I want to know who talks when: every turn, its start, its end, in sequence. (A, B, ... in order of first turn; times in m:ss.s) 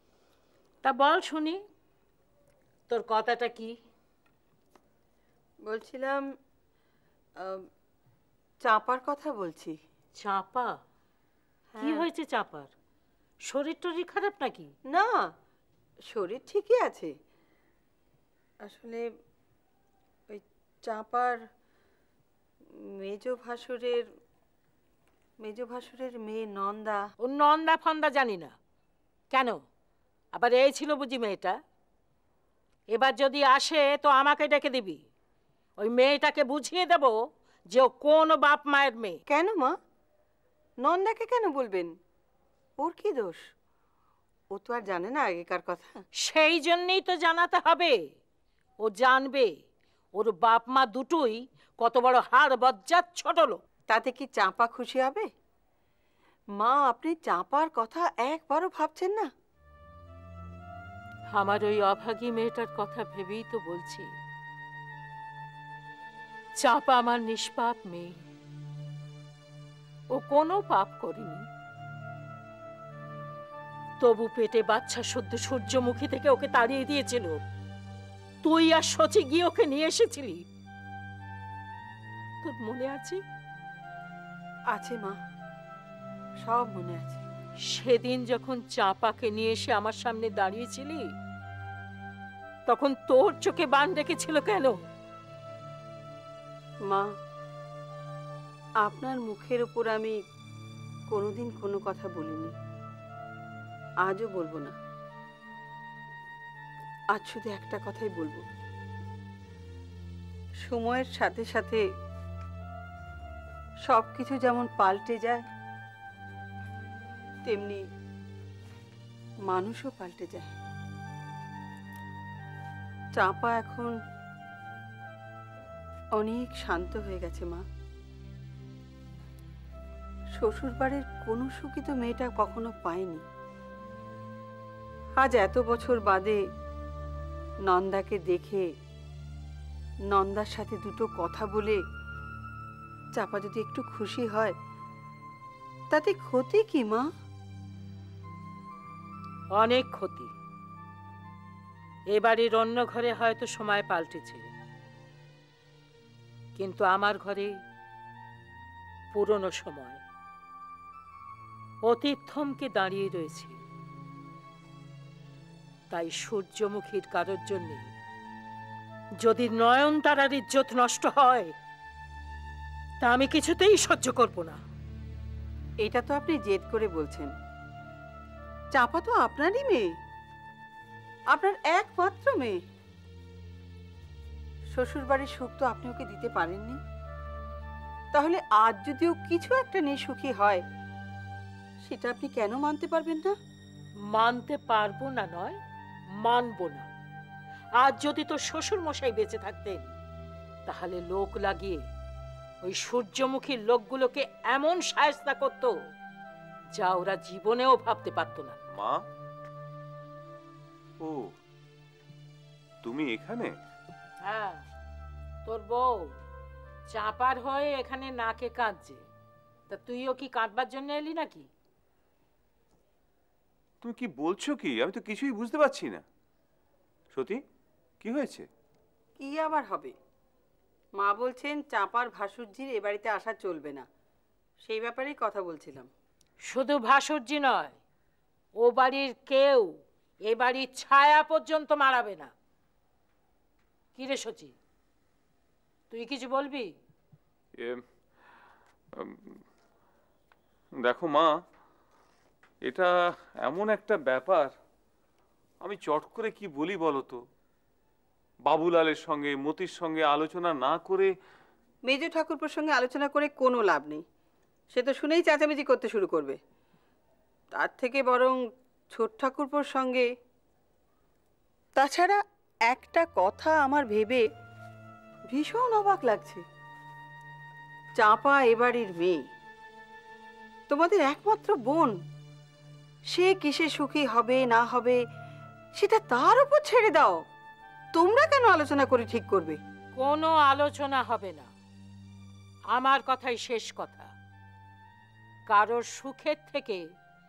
0:00.8-0:01.6 A
0:02.9-0:03.7 A
0:05.6-0:06.2 B
0:08.6-0:09.8 B
0:10.2-0:10.8 A
0:11.8-0:12.0 B
0:11.8-0:12.7 A
0:13.5-0:14.7 A
0:14.9-0:15.2 B
0:16.1-0:17.1 B
0:18.6-0:19.0 B
0:20.3-0:21.4 B
0:23.0-0:24.0 B
0:25.4-0:27.0 B
0:27.2-0:28.5 A
0:29.3-0:29.6 A
0:30.3-0:31.6 A
0:32.9-0:35.0 A
0:35.8-0:37.2 A
0:37.7-0:39.2 A
0:39.3-0:39.7 B
0:40.8-0:41.9 B
0:42.8-0:43.4 B
0:44.5-0:46.0 B
0:46.2-0:48.0 A
0:48.8-0:49.5 A
0:50.1-0:53.6 A
0:53.9-0:55.3 B
0:56.6-0:59.3 B
1:01.3-1:04.1 A
1:06.6-1:08.2 A
1:10.1-1:11.4 A
1:14.0-1:17.4 A
1:18.4-1:20.4 A
1:22.4-1:23.2 A
1:24.7-1:25.1 B
1:26.4-1:27.2 B
1:27.7-1:31.0 A
1:32.7-1:34.8 A
1:38.8-1:40.1 B
1:41.1-1:42.5 B
1:44.0-1:44.7 B
1:47.1-1:48.4 B
1:50.6-1:51.8 B
1:53.9-1:55.4 B
1:57.4-1:57.8 B
1:59.5-2:00.5 B
2:03.2-2:03.9 B
2:06.2-2:07.6 B
2:10.4-2:13.2 B
2:15.2-2:16.4 B
2:17.7-2:18.6 B
2:20.1-2:21.8 B
2:23.2-2:24.5 B
2:25.9-2:27.0 B
2:29.5-2:30.3 A
2:32.1-2:34.4 A
2:36.6-2:37.5 A
2:39.1-2:40.0 A
2:41.8-2:43.6 A
2:45.9-2:47.9 A
2:49.2-2:51.5 A
2:53.0-2:54.6 A
2:55.8-2:57.3 B
2:58.7-2:59.8 B
3:01.3-3:02.6 B
3:04.8-3:06.8 B
3:08.1-3:10.6 B
3:11.8-3:13.3 B
3:14.1-3:15.6 A
3:16.2-3:16.9 A
3:17.8-3:19.9 A
3:20.6-3:21.8 A
3:22.6-3:25.7 A
3:26.8-3:28.6 A
3:28.7-3:29.0 C
3:31.0-3:31.3 C
3:32.8-3:33.5 C
3:34.2-3:34.6 A
3:35.4-3:36.1 A
3:36.9-3:39.0 A
3:39.7-3:41.5 A
3:43.8-3:46.0 C
3:47.1-3:47.4 C
3:48.0-3:48.5 C
3:49.2-3:49.9 B
3:51.0-3:53.9 B
3:54.6-3:55.9 B
3:56.5-3:57.8 A
3:58.6-3:59.7 A
4:00.3-4:02.3 A
4:03.9-4:04.5 A
4:05.9-4:06.7 A
4:10.8-4:11.3 C
4:12.6-4:14.5 C
4:15.6-4:17.2 C
4:18.5-4:21.1 C
4:21.9-4:24.0 B
4:24.7-4:26.4 B
4:27.6-4:28.4 B
4:28.9-4:30.0 B
4:31.8-4:34.2 B
4:35.3-4:36.4 B
4:38.0-4:39.2 B
4:40.7-4:41.9 B
4:43.1-4:45.0 B
4:45.8-4:47.2 B
4:47.9-4:49.6 B
4:50.0-4:51.5 A
4:52.7-4:54.1 A
4:55.5-4:56.8 A